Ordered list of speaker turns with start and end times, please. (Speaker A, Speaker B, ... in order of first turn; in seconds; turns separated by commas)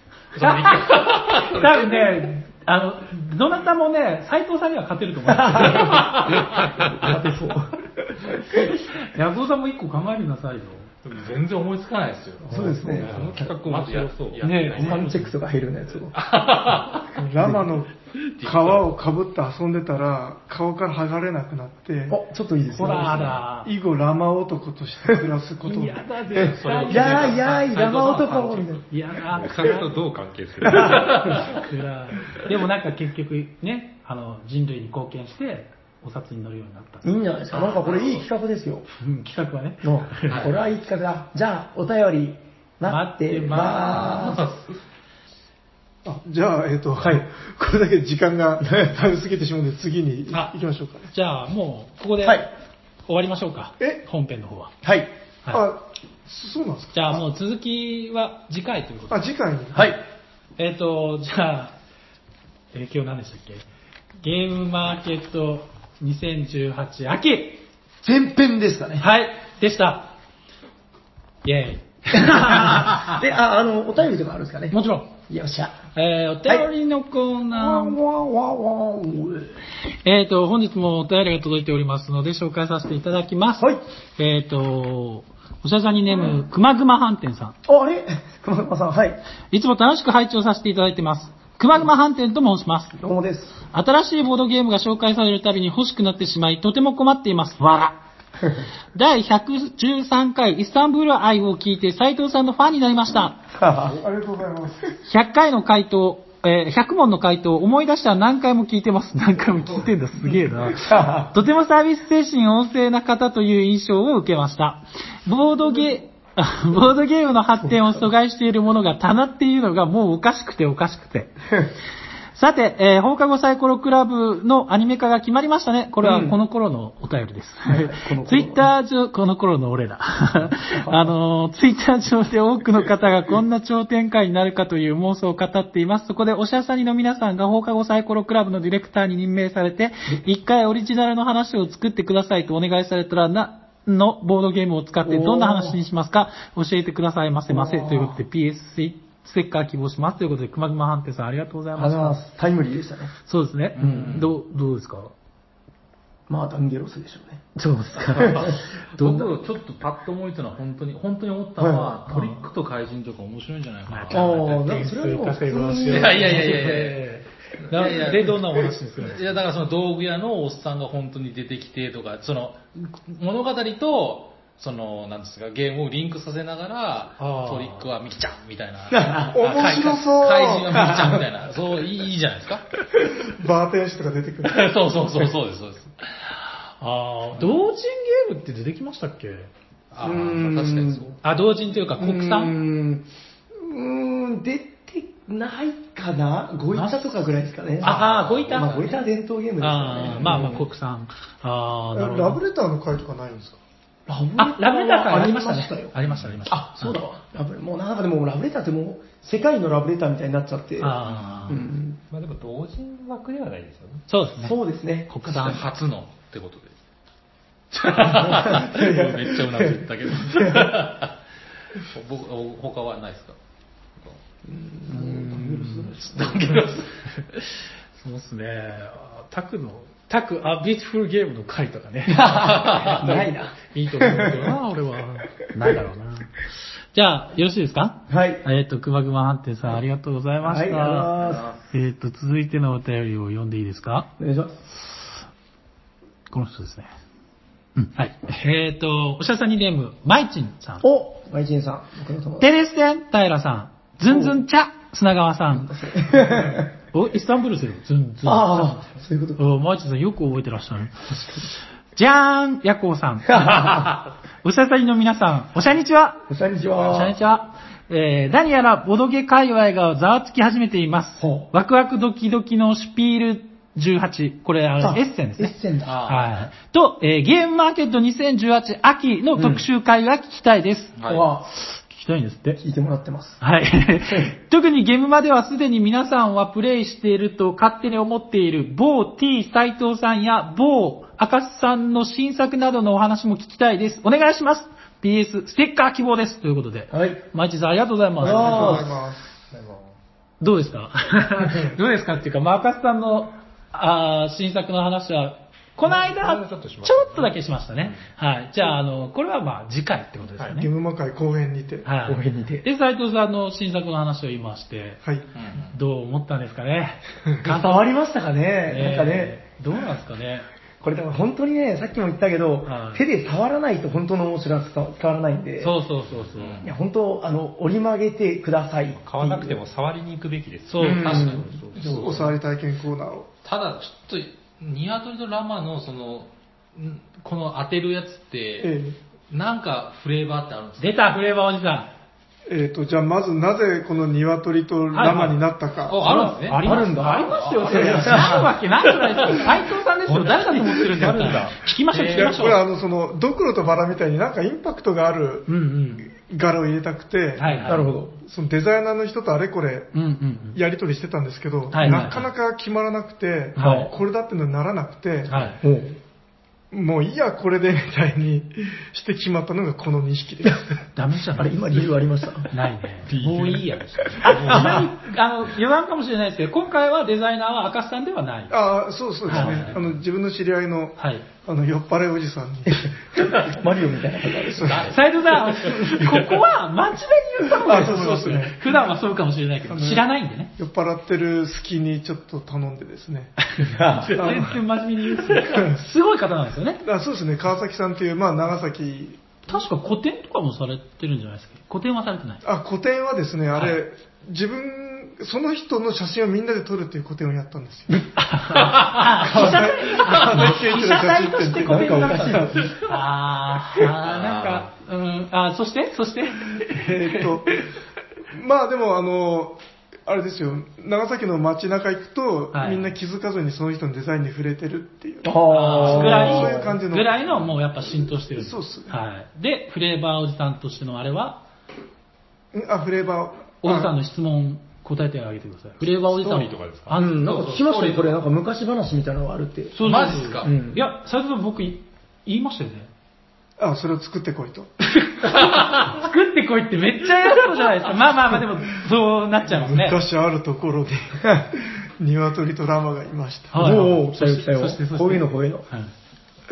Speaker A: 0.3-2.2, Speaker B: 0.4-6.1, Speaker C: 5.3-8.3, Speaker A: 5.7-6.9, Speaker B: 8.5-10.9, Speaker A: 11.0-15.2, Speaker C: 12.5-13.5, Speaker D: 12.5-14.5, Speaker B: 14.4-15.3, Speaker C: 14.8-16.2, Speaker A: 16.1-17.2, Speaker E: 17.1-17.9, Speaker C: 17.4-17.8, Speaker A: 18.2-18.9, Speaker E: 18.4-22.2, Speaker C: 22.1-23.4, Speaker B: 22.7-23.7, Speaker A: 23.1-23.4, Speaker E: 23.6-26.1, Speaker B: 25.6-27.7, Speaker C: 26.3-28.8, Speaker A: 26.4-28.8, Speaker B: 28.9-29.9, Speaker D: 29.3-31.4, Speaker C: 30.6-31.3, Speaker A: 30.8-31.6, Speaker B: 31.0-37.1, Speaker C: 37.0-38.9, Speaker A: 37.5-38.2, Speaker B: 38.9-40.5, Speaker C: 39.8-44.4, Speaker A: 40.3-40.7, Speaker B: 42.8-44.4, Speaker A: 43.6-44.7, Speaker E: 46.0-51.1, Speaker C: 47.0-47.2, Speaker C: 48.6-48.9, Speaker B: 51.1-52.5, Speaker C: 52.2-52.5, Speaker B: 53.1-54.7, Speaker C: 54.8-55.1, Speaker E: 55.5-57.2, Speaker B: 56.9-59.3, Speaker E: 59.1-60.0, Speaker C: 59.7-60.0, Speaker B: 60.6-61.7, Speaker B: 62.7-63.6, Speaker B: 64.2-67.6, Speaker C: 68.0-69.0, Speaker B: 69.0-70.1, Speaker B: 71.4-73.0, Speaker C: 72.1-75.8, Speaker B: 74.7-75.1, Speaker B: 75.9-78.0, Speaker C: 77.5-79.6, Speaker B: 79.9-87.5, Speaker C: 87.6-89.2, Speaker B: 89.5-93.0, Speaker C: 93.0-93.6, Speaker B: 93.7-97.9, Speaker B: 98.9-103.4, Speaker C: 103.5-104.0, Speaker E: 103.8-104.9, Speaker B: 105.0-121.5, Speaker C: 110.7-111.3, Speaker B: 122.3-152.2, Speaker C: 126.0-126.4, Speaker C: 127.6-128.7, Speaker C: 130.7-131.1, Speaker C: 145.0-145.8, Speaker C: 147.5-148.2, Speaker C: 151.7-153.1, Speaker B: 153.3-155.1, Speaker A: 153.8-154.3, Speaker C: 153.8-154.2, Speaker C: 156.3-157.5, Speaker B: 157.6-158.7, Speaker C: 158.1-159.3, Speaker A: 158.3-164.4, Speaker C: 161.6-162.3, Speaker B: 163.9-169.4, Speaker C: 164.1-166.7, Speaker A: 165.8-167.1, Speaker A: 167.6-182.6, Speaker B: 177.2-177.8, Speaker C: 178.9-179.3, Speaker E: 179.3-180.8, Speaker B: 179.5-179.9, Speaker C: 180.7-181.2, Speaker E: 183.3-184.7, Speaker A: 184.4-186.0, Speaker B: 186.8-189.5, Speaker A: 189.9-191.2, Speaker C: 190.0-191.1, Speaker B: 191.2-192.6, Speaker C: 192.0-200.6, Speaker B: 196.7-197.2, Speaker B: 197.8-198.9, Speaker A: 197.8-198.9, Speaker B: 199.6-202.4, Speaker E: 201.9-203.6, Speaker C: 204.1-205.9, Speaker B: 204.4-207.0, Speaker A: 206.0-206.4, Speaker C: 206.4-212.0, Speaker B: 210.8-211.6, Speaker D: 212.1-214.1, Speaker B: 214.1-215.6, Speaker C: 214.4-215.1, Speaker A: 215.2-216.7, Speaker A: 217.7-221.1, Speaker C: 217.9-220.8, Speaker A: 221.8-223.3, Speaker C: 224.4-226.4, Speaker B: 224.9-241.1, Speaker A: 226.0-226.9, Speaker C: 232.1-234.5, Speaker A: 232.4-233.0, Speaker C: 238.1-238.4, Speaker C: 240.4-241.5, Speaker A: 241.2-241.6, Speaker B: 241.7-244.1, Speaker C: 244.2-244.6, Speaker B: 244.8-245.1, Speaker B: 246.3-246.9, Speaker B: 247.8-250.8, Speaker C: 250.8-252.5, Speaker B: 252.4-261.1, Speaker C: 254.1-254.4, Speaker C: 255.5-256.7, Speaker C: 258.2-259.4, Speaker C: 261.1-261.4, Speaker B: 261.9-266.2, Speaker C: 263.3-263.9, Speaker C: 266.3-267.2, Speaker B: 266.8-280.9, Speaker C: 271.2-271.5, Speaker C: 274.8-276.0, Speaker A: 275.8-276.3, Speaker C: 279.3-279.6, Speaker A: 280.9-281.3, Speaker C: 281.1-281.5, Speaker B: 281.5-282.6, Speaker C: 282.6-283.4, Speaker B: 283.4-298.9, Speaker C: 296.9-297.2, Speaker C: 298.2-299.0, Speaker E: 298.2-299.4, Speaker D: 299.5-299.9, Speaker B: 300.4-310.7, Speaker D: 305.8-307.3, Speaker E: 310.6-311.9, Speaker B: 311.8-315.0, Speaker C: 312.0-312.6, Speaker A: 315.3-315.7, Speaker B: 315.7-317.9, Speaker C: 317.4-319.4, Speaker B: 318.7-320.4, Speaker C: 320.8-325.8, Speaker B: 322.6-323.0, Speaker B: 325.6-326.6, Speaker A: 326.4-326.7, Speaker C: 326.6-329.6, Speaker D: 329.0-332.3, Speaker B: 330.7-331.2, Speaker C: 330.8-331.5, Speaker A: 330.8-331.5, Speaker E: 331.7-333.3, Speaker A: 333.4-338.7, Speaker E: 338.6-339.0, Speaker A: 339.3-340.9, Speaker B: 340.8-341.9, Speaker E: 342.5-346.1, Speaker B: 344.9-345.4, Speaker A: 345.8-349.5, Speaker B: 346.0-352.6, Speaker C: 346.5-348.5, Speaker D: 350.1-351.5, Speaker A: 351.9-352.5, Speaker E: 352.1-355.5, Speaker B: 355.5-356.1, Speaker E: 356.0-357.6, Speaker B: 357.4-357.9, Speaker C: 357.6-358.1, Speaker E: 358.1-359.9, Speaker B: 359.9-360.6, Speaker E: 360.5-365.5, Speaker B: 361.7-362.3, Speaker C: 361.8-362.1, Speaker B: 363.6-363.9, Speaker C: 363.6-363.9, Speaker B: 365.3-365.6, Speaker C: 365.6-366.0, Speaker E: 366.7-370.8, Speaker B: 370.9-378.6, Speaker C: 371.3-372.5, Speaker D: 373.0-374.9, Speaker C: 374.2-374.9, Speaker E: 378.5-383.4, Speaker B: 379.3-379.8, Speaker B: 381.0-381.2, Speaker C: 382.6-384.9, Speaker E: 384.4-384.9, Speaker A: 384.6-386.4, Speaker B: 384.8-390.5, Speaker E: 387.6-388.6, Speaker E: 389.7-390.0, Speaker E: 390.6-393.4, Speaker C: 393.6-394.6, Speaker B: 393.7-396.8, Speaker E: 394.1-394.6, Speaker E: 395.3-395.8, Speaker E: 396.8-399.4, Speaker B: 399.5-402.4, Speaker E: 402.4-408.1, Speaker B: 408.2-417.6, Speaker A: 408.5-409.2, Speaker E: 409.1-412.8, Speaker A: 409.9-410.5, Speaker C: 411.6-412.7, Speaker A: 414.0-414.7, Speaker E: 416.7-417.6, Speaker E: 418.3-427.1, Speaker B: 422.5-422.9, Speaker C: 425.2-426.8, Speaker B: 425.5-431.4, Speaker E: 428.4-428.9, Speaker E: 432.5-433.9, Speaker B: 433.6-437.1, Speaker D: 436.0-436.9, Speaker C: 436.9-440.9, Speaker A: 437.0-438.2, Speaker B: 439.7-442.9, Speaker A: 439.8-440.6, Speaker E: 443.6-444.7, Speaker B: 445.1-450.0, Speaker A: 445.5-445.9, Speaker E: 449.4-453.8, Speaker B: 453.5-455.9, Speaker C: 453.5-455.6